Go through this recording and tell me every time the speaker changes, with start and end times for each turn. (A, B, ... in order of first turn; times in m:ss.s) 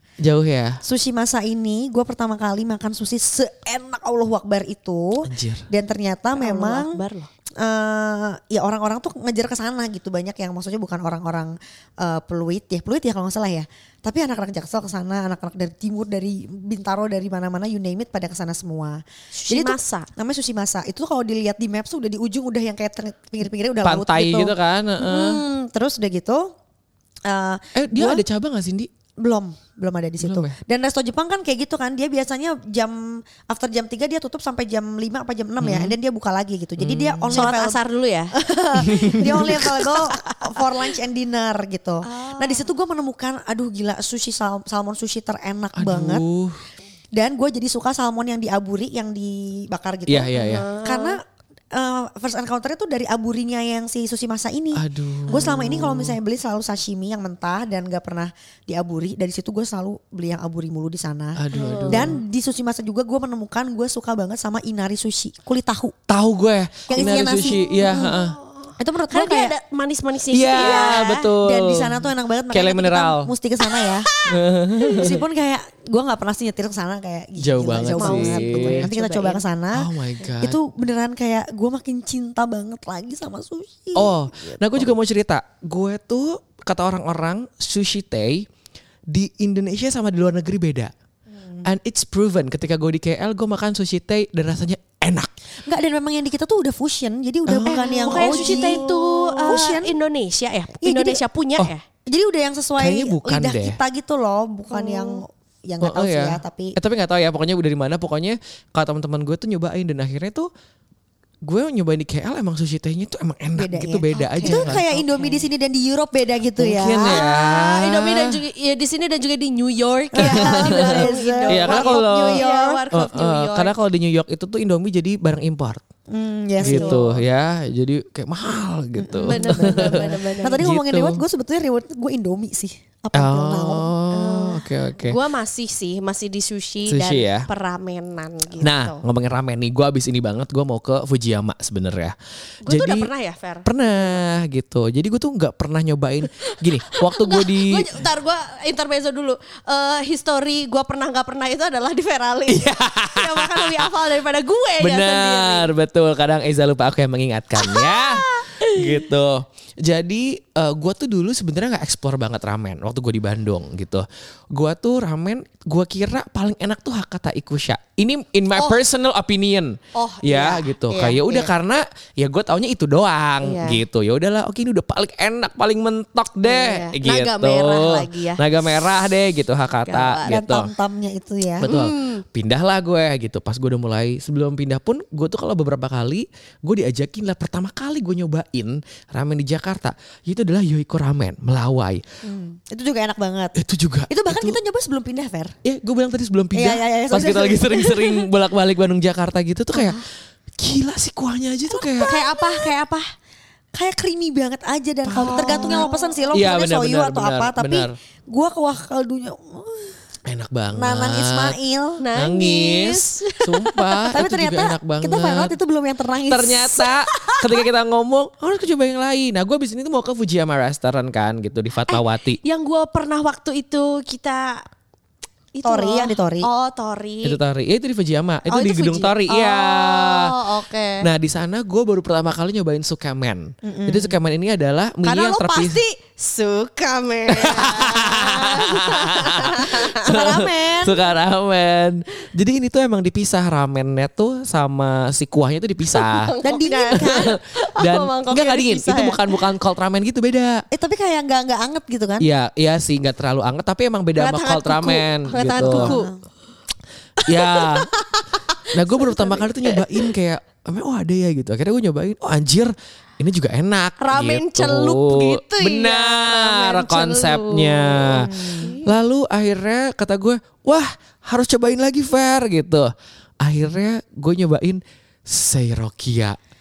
0:00.2-0:00.8 A
0:00.8-0:07.0 B
0:05.2-0:05.7 A
0:06.4-0:07.3 C
0:07.6-0:26.5 B
0:19.3-0:20.1 C
0:23.8-0:25.4 A
0:27.2-0:28.2 B
0:27.7-0:28.9 A
0:29.2-0:37.8 B
0:30.2-0:30.5 A
0:35.6-0:35.9 A
0:36.8-0:37.5 A
0:37.3-0:40.7 C
0:38.3-0:46.2 B
0:38.8-0:39.6 A
0:42.0-0:42.7 C
0:45.8-0:46.6 A
0:47.1-0:51.2 B
0:50.1-0:50.7 A
0:50.3-0:51.2 C
0:51.7-1:05.9 B
0:54.7-0:56.2 A
1:01.4-1:02.2 A
1:01.5-1:02.1 C
1:06.1-1:08.4 A
1:06.9-1:08.2 B
1:07.7-1:11.3 C
1:08.8-1:09.5 B
1:10.3-1:13.3 A
1:10.6-1:14.1 B
1:13.7-1:15.1 C
1:14.3-1:15.2 A
1:14.9-1:24.9 B
1:17.4-1:18.9 A
1:17.9-1:19.4 C
1:19.7-1:20.6 A
1:23.9-1:28.4 A
1:29.1-1:30.9 A
1:31.3-1:31.7 B
1:31.6-1:35.3 A
1:35.6-1:39.9 B
1:37.5-1:38.9 A
1:37.7-1:41.8 C
1:40.8-1:41.2 B
1:42.0-1:46.8 B
1:42.8-1:43.8 A
1:44.7-1:45.2 C
1:45.8-1:50.5 A
1:51.4-1:54.8 A
1:53.6-1:57.2 B
1:54.4-1:55.4 C
1:56.6-1:58.4 A
1:57.0-2:03.8 C
2:00.1-2:02.8 B
2:00.2-2:05.8 A
2:06.1-2:07.2 B
2:06.6-2:07.1 C
2:06.6-2:11.2 A
2:09.0-2:13.9 B
2:09.2-2:10.6 C
2:13.1-2:15.2 A
2:14.1-2:19.0 C
2:16.9-2:17.5 A
2:18.6-2:23.1 A
2:22.6-2:24.2 C
2:23.6-2:28.0 A
2:26.4-2:35.7 C
2:32.5-2:33.8 A
2:34.8-3:00.7 A
2:37.6-2:39.0 C
2:49.9-2:51.5 C
2:53.4-2:53.8 C
2:56.4-2:58.4 C
2:59.8-3:00.3 C
3:00.2-3:01.7 B
3:01.6-3:02.2 C
3:01.6-3:12.0 A
3:12.2-3:13.6 B
3:13.6-3:14.6 A
3:14.1-3:15.5 B
3:15.6-3:20.0 A
3:16.5-3:18.2 B
3:20.6-3:22.1 A
3:21.8-3:22.7 B
3:22.0-3:23.0 C
3:23.7-3:30.0 B
3:25.0-3:27.9 A
3:25.2-3:26.2 C
3:30.2-3:31.6 A
3:30.7-3:32.0 B
3:32.0-3:34.0 C
3:32.1-3:35.5 A
3:34.1-3:36.9 B
3:36.3-3:42.4 A
3:37.1-3:37.4 C
3:41.9-3:44.6 C
3:45.5-3:47.4 C
3:45.6-3:46.5 B
3:47.2-3:50.4 A
3:48.4-3:51.1 C
3:51.0-3:55.8 A
3:53.6-3:54.2 B
3:55.0-4:00.2 C
3:57.3-4:06.3 A
4:00.0-4:01.1 B
4:05.9-4:09.3 C
4:06.4-4:07.3 B
4:07.0-4:10.6 A
4:10.7-4:12.3 B
4:12.2-4:16.0 A
4:14.2-4:16.1 C
4:15.5-4:16.2 B
4:17.2-4:20.1 C
4:17.2-4:17.9 A
4:18.7-4:36.4 A
4:24.0-4:28.9 C
4:28.1-4:28.7 B